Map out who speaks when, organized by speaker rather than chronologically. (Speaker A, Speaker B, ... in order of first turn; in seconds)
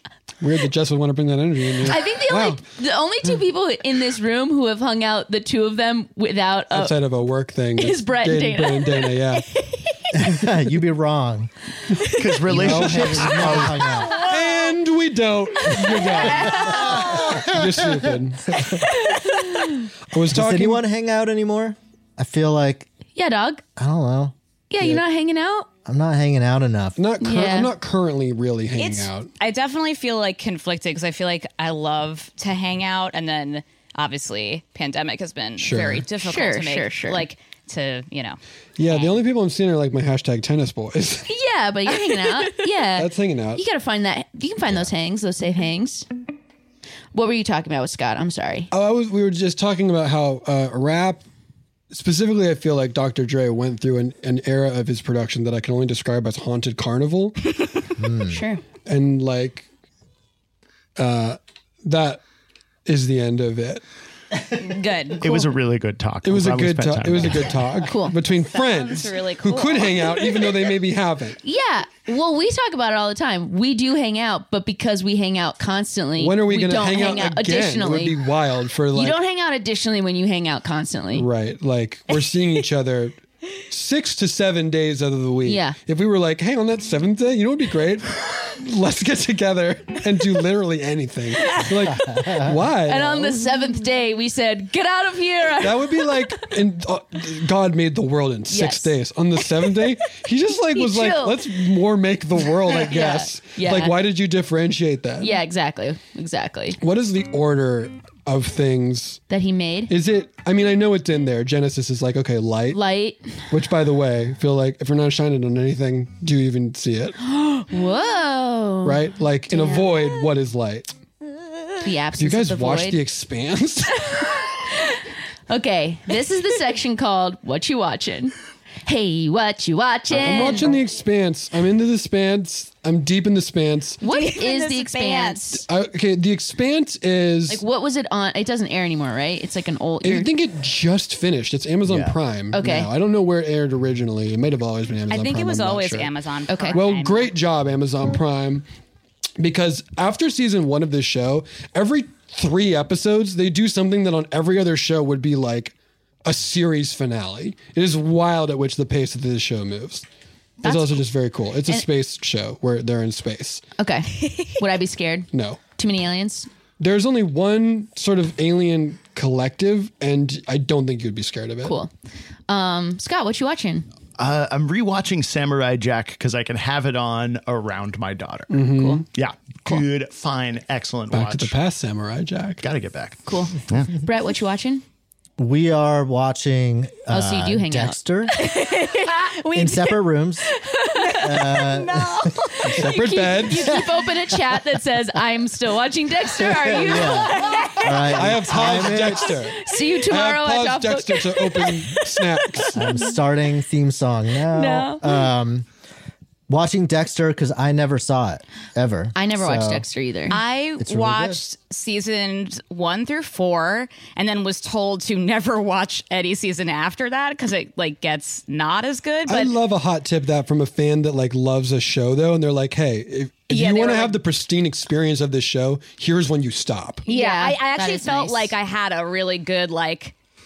Speaker A: 0.4-2.6, 6.7-9.5, 12.5-19.2, 20.1-20.8, 27.0-29.3, 35.6-36.1, 38.8-41.3, 43.0-43.6, 48.7-51.2, 51.9-57.5, 58.8-59.7, 61.0-62.2, 62.9-63.8, 66.2-71.4, 76.2-79.2, 81.1-83.2, 83.7-93.5, 95.6-105.4, 106.8-109.2, 109.9-112.8, 113.5-117.2, 118.8-120.9, 122.2-124.3, 130.1-134.0, 135.6-137.6, 140.0-146.1, 146.7-148.7, 149.4-160.1, 160.6-163.6, 165.3-165.6, 166.8-171.8, 178.5-179.1, 181.1-182.6, 192.7-193.8, 198.1-202.8, 219.3-227.1
Speaker B: 1.8-7.0, 7.8-9.3, 15.7-17.4, 19.1-19.8, 23.1-23.6, 24.7-25.7, 27.2-27.8, 36.2-37.3, 41.3-46.1, 47.1-48.7, 58.3-58.6, 67.9-68.2, 71.4-78.2, 78.9-81.3, 85.4-85.8, 92.9-96.5, 98.5-99.7, 100.7-101.7, 102.4-104.0, 105.2-106.8, 109.3-109.9, 112.7-113.5, 117.2-120.2, 121.8-123.0, 124.1-128.3, 128.9-130.8, 134.0-135.7, 137.5-140.3, 142.5-142.9, 146.5-146.8, 160.6-161.9, 163.8-166.5, 171.6-171.9, 172.5-173.9, 178.7-179.1, 183.3-184.8, 187.1-188.0, 190.8-191.2, 192.8-198.4, 199.5-203.1, 204.5-205.2, 209.2-210.4, 227.1-228.5
Speaker C: 10.1-11.5, 12.5-14.2, 20.3-22.9, 23.8-24.3, 25.9-27.0, 58.0-58.4, 185.4-188.4, 189.5-190.5, 191.2-192.5, 196.6-199.4, 202.7-205.7, 206.5-209.9, 210.8-211.4
Speaker D: 12.2-13.9, 65.2-67.7, 141.8-142.2, 174.2-178.6, 179.1-181.6, 182.6-183.9
Speaker E: 28.8-39.2, 64.6-65.3, 68.5-70.6, 134.0-135.4, 145.1-147.3, 188.4-190.0, 191.0-192.8, 197.1-198.0, 210.3-219.5, 223.5-224.2, 227.1-230.1